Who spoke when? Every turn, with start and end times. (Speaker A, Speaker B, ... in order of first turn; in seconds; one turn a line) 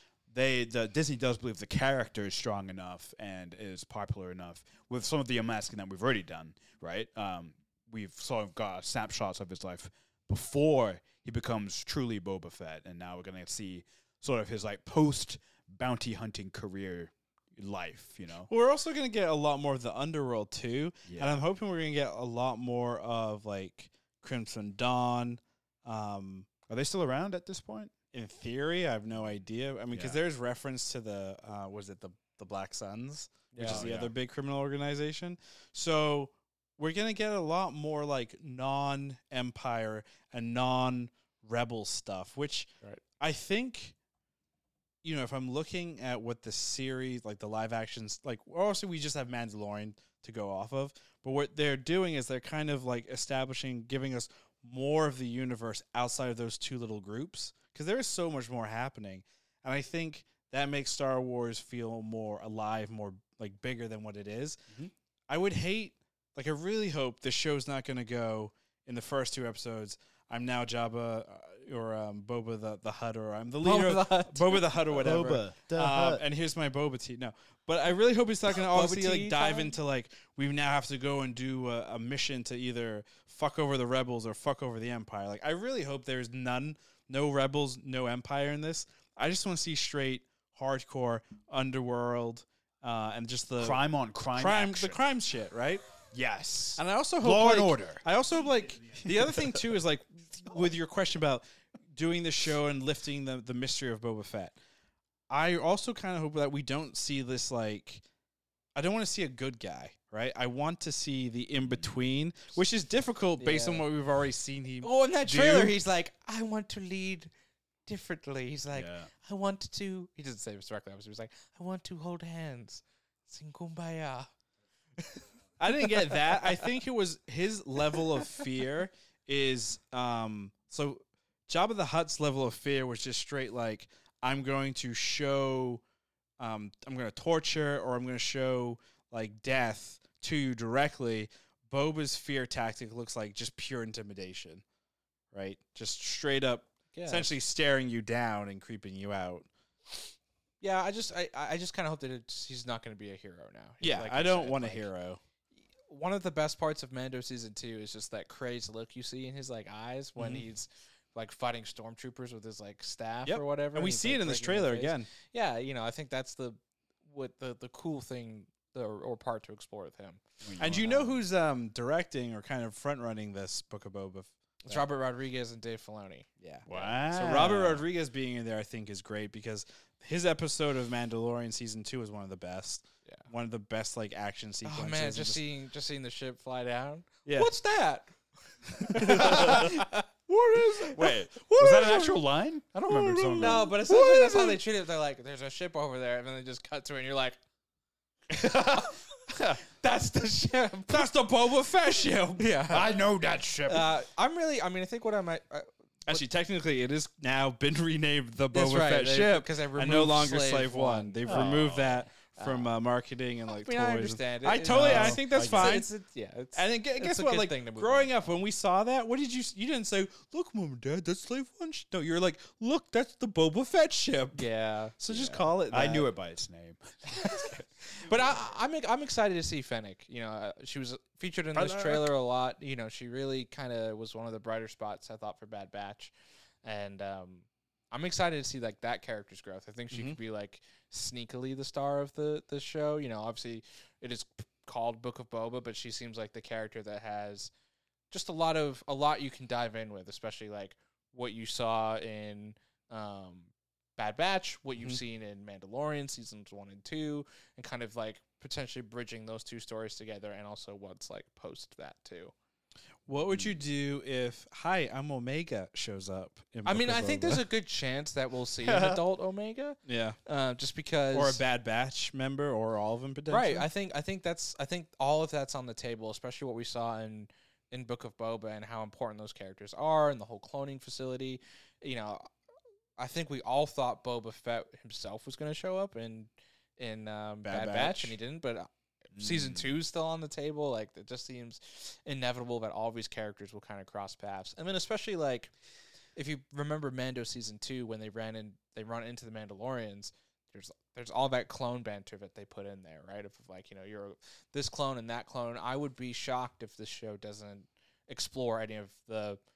Speaker A: 0.3-18.5
Speaker B: 18.5-26.5
Speaker A: 21.0-21.4
Speaker A: 26.7-27.9
Speaker B: 28.1-43.9
Speaker A: 29.9-30.2
Speaker C: 33.5-33.8
Speaker A: 33.6-34.1
Speaker B: 45.0-93.8
Speaker C: 73.6-74.6
Speaker A: 74.9-76.2
Speaker C: 78.5-79.7
Speaker A: 93.6-95.0
Speaker B: 94.3-95.8
Speaker A: 96.1-98.0
Speaker B: 96.8-104.5
Speaker A: 99.3-99.5
Speaker B: 105.3-108.0
Speaker B: 108.8-115.7
Speaker C: 113.4-113.8
Speaker C: 114.8-117.3
Speaker C: 117.8-124.3
Speaker A: 118.7-119.1
Speaker C: 125.0-125.2
Speaker B: 125.6-135.8
Speaker C: 125.8-126.6
Speaker B: 136.4-144.6
Speaker B: 145.3-149.5
Speaker C: 146.9-147.3
Speaker C: 150.6-154.9
Speaker B: 153.8-155.2
Speaker C: 155.9-170.2
Speaker B: 160.2-160.4
Speaker B: 163.2-165.1
Speaker A: 170.4-171.0
Speaker B: 170.6-174.8
Speaker C: 170.8-171.1
Speaker C: 174.7-176.9
Speaker B: 176.4-185.4
Speaker A: 176.7-177.8
Speaker C: 184.6-188.1
Speaker B: 187.2-187.5
Speaker C: 188.7-190.0
Speaker B: 188.8-191.8
Speaker A: 189.2-189.8
Speaker C: 190.6-192.2
Speaker A: 191.0-193.7
Speaker B: 192.8-194.6
Speaker C: 193.3-197.4
Speaker C: 198.3-201.1
Speaker B: 200.9-202.5
Speaker C: 202.4-202.9
Speaker A: 202.7-203.9
Speaker C: 203.7-206.2
Speaker B: 206.1-215.9
Speaker C: 208.5-211.7
Speaker A: 211.2-212.0
Speaker C: 212.2-212.7
Speaker C: 213.5-218.1
Speaker A: 214.7-215.8
Speaker B: 216.5-224.4
Speaker C: 224.3-225.5
Speaker B: 225.0-226.1
Speaker A: 225.7-227.6
Speaker C: 227.2-236.1
Speaker B: 231.5-232.1
Speaker C: 236.6-247.5
Speaker B: 239.9-240.2
Speaker C: 248.1-262.3
Speaker B: 263.1-267.4
Speaker A: 263.3-263.6
Speaker C: 266.6-271.4
Speaker A: 268.6-269.0
Speaker B: 269.9-270.2
Speaker B: 271.1-273.7
Speaker C: 273.3-282.3
Speaker C: 283.0-295.5
Speaker B: 287.4-288.2
Speaker A: 289.1-289.7
Speaker C: 296.1-309.4